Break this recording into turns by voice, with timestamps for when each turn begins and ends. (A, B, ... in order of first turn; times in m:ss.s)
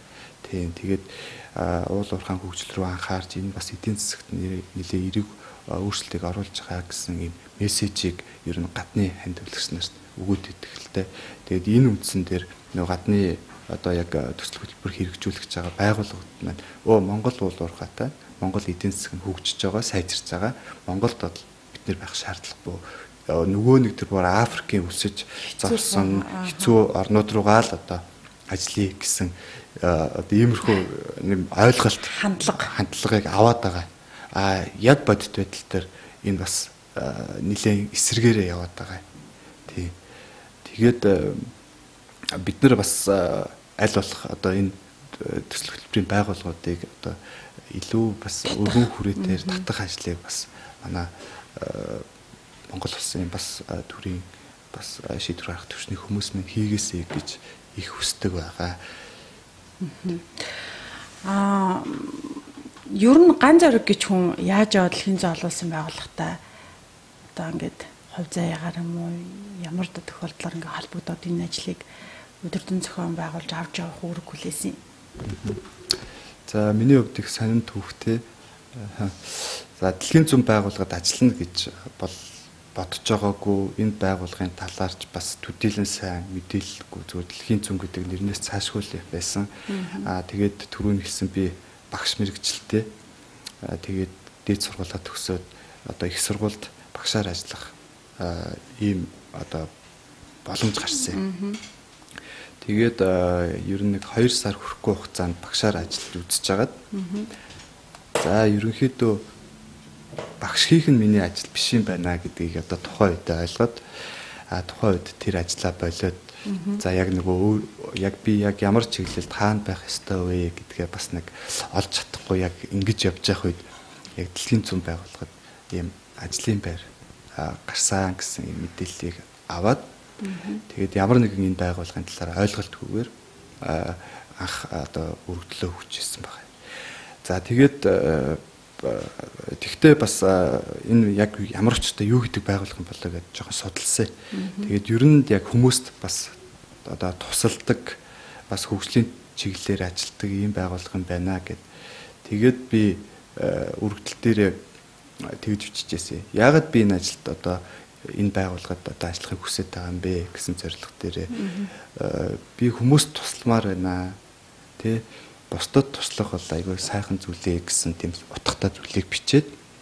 0:00.4-0:39.0 A
0:25.4-0:26.8 B
0:32.0-0:32.7 B
0:39.6-0:40.0 A
0:40.6-0:41.5 A
0:42.3-0:47.2 A
0:47.7-0:52.0 A
0:48.5-0:49.6 B
0:52.7-0:58.8 A
0:59.8-1:00.5 B
1:01.2-1:06.4 B
1:07.3-1:11.8 B
1:12.4-1:14.8 B
1:15.2-1:15.6 A
1:16.4-1:29.5 A
1:29.7-1:30.1 B
1:30.0-1:32.9 A
1:33.6-1:39.7 A
1:40.4-1:41.2 A
1:41.1-1:41.6 B
1:42.6-1:46.8 A
1:46.9-1:47.3 B
1:48.2-1:49.2 A
1:50.4-1:53.8 A
1:54.5-2:03.6 A
1:56.4-1:56.8 B
2:04.2-2:09.8 A
2:10.2-2:10.6 B
2:10.7-2:16.5 A
2:17.2-2:31.6 A
2:24.3-2:24.7 B
2:32.2-2:34.6 A
2:35.2-2:44.2 A
2:41.3-2:41.7 B
2:44.8-2:49.6 A